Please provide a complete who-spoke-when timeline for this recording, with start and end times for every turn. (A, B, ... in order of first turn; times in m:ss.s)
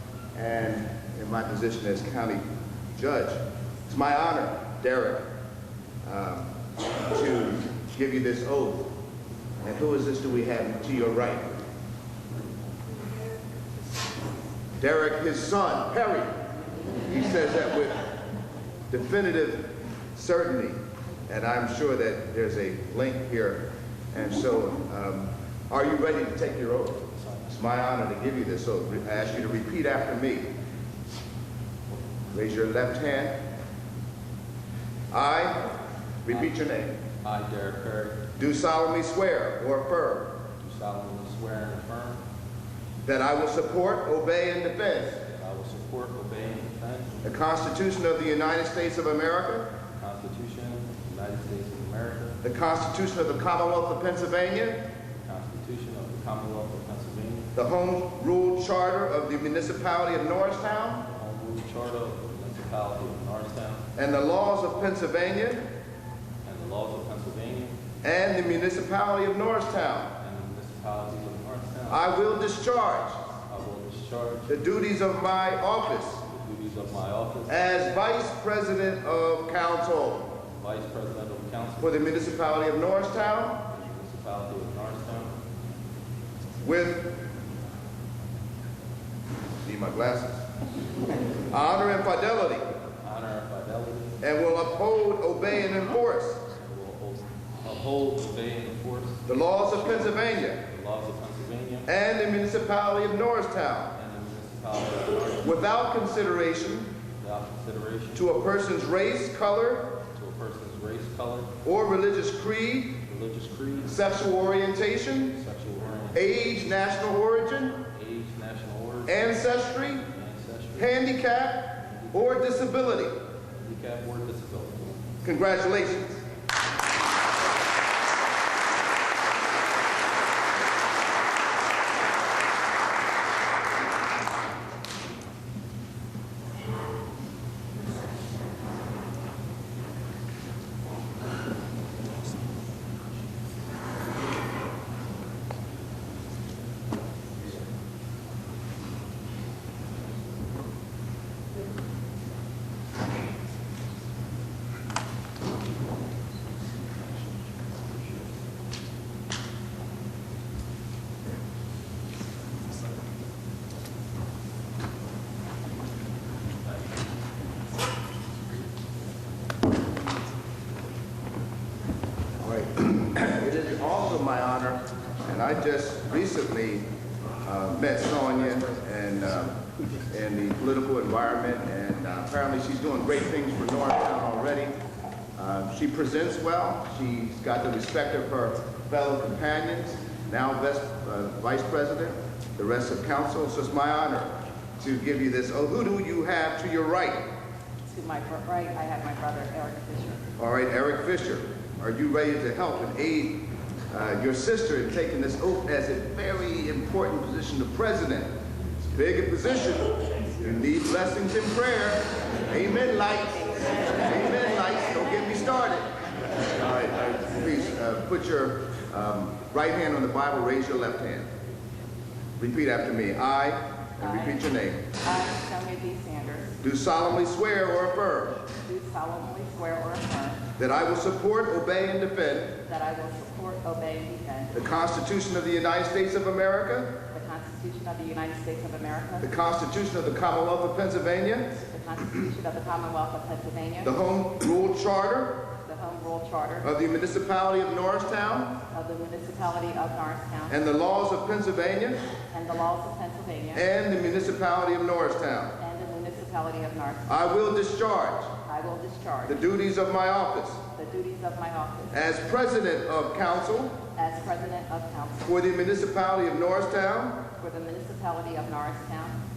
0:00.4-0:02.4 A
0:03.0-0:05.2 A
0:06.0-0:06.5 A
0:07.0-0:08.9 A
0:09.6-0:11.5 A
0:14.8-0:16.4 A
0:17.0-0:18.1 A
0:18.9-0:30.5 A
0:27.0-0:27.6 B
0:32.3-0:33.4 A
0:35.1-0:37.0 A
0:37.2-0:38.2 B
0:38.4-0:40.3 A
0:40.6-0:42.2 B
0:43.0-0:45.2 A
0:45.3-0:47.2 B
0:47.2-0:49.7 A
0:50.0-0:52.4 B
0:52.4-0:54.8 A
0:55.2-0:57.5 B
0:57.6-1:01.0 A
1:01.1-1:03.8 B
1:04.0-1:05.7 A
1:06.4-1:07.8 B
1:08.0-1:10.1 A
1:10.2-1:12.1 B
1:11.9-1:13.2 A
1:13.4-1:14.5 B
1:14.5-1:16.2 A
1:16.3-1:17.6 B
1:17.5-1:20.4 A
1:20.5-1:21.9 B
1:21.8-1:23.6 A
1:23.7-1:25.4 B
1:26.6-1:27.2 A
1:29.6-1:30.5 A
1:31.5-1:32.7 A
1:33.0-1:34.2 B
1:34.2-1:36.4 A
1:36.5-1:41.9 B
1:39.3-1:40.6 A
1:41.9-1:44.0 A
1:44.0-1:45.6 B
1:45.4-1:46.9 A
1:47.2-1:48.3 B
1:48.2-1:49.9 A
1:50.1-1:51.5 B
1:51.6-1:53.0 A
1:53.1-1:54.0 B
1:53.8-1:55.4 A
1:55.3-1:56.2 B
1:56.1-1:57.8 A
1:57.9-1:59.3 B
1:59.1-2:00.1 A
2:00.0-2:00.9 B
2:00.8-2:03.2 A
2:01.8-2:02.6 B
2:03.5-2:05.1 B
2:05.2-2:06.2 A
2:52.4-2:56.9 A
2:57.4-3:04.8 A
3:05.4-3:17.3 A
3:17.9-3:20.2 C
3:20.4-3:28.3 A
3:28.9-3:35.9 A
3:33.6-3:34.9 C
3:36.5-3:41.3 A
3:42.4-3:44.8 A
3:44.0-3:44.4 C
3:45.0-3:46.6 C
3:46.6-3:48.4 A
3:48.6-3:50.4 C
3:50.6-3:52.6 A
3:52.7-3:54.6 C
3:54.5-3:56.9 A
3:57.1-3:59.3 C
3:59.2-4:01.6 A
4:01.7-4:04.0 C
4:03.8-4:05.4 A
4:05.6-4:06.7 C
4:06.6-4:08.6 A
4:08.7-4:10.6 C
4:10.5-4:12.0 A
4:12.3-4:13.6 C
4:13.5-4:15.6 A
4:15.6-4:17.2 C
4:17.1-4:18.3 A
4:18.4-4:19.4 C
4:19.3-4:20.6 A
4:20.7-4:22.1 C
4:21.9-4:23.8 A
4:23.9-4:25.3 C
4:25.2-4:27.2 A
4:27.4-4:29.2 C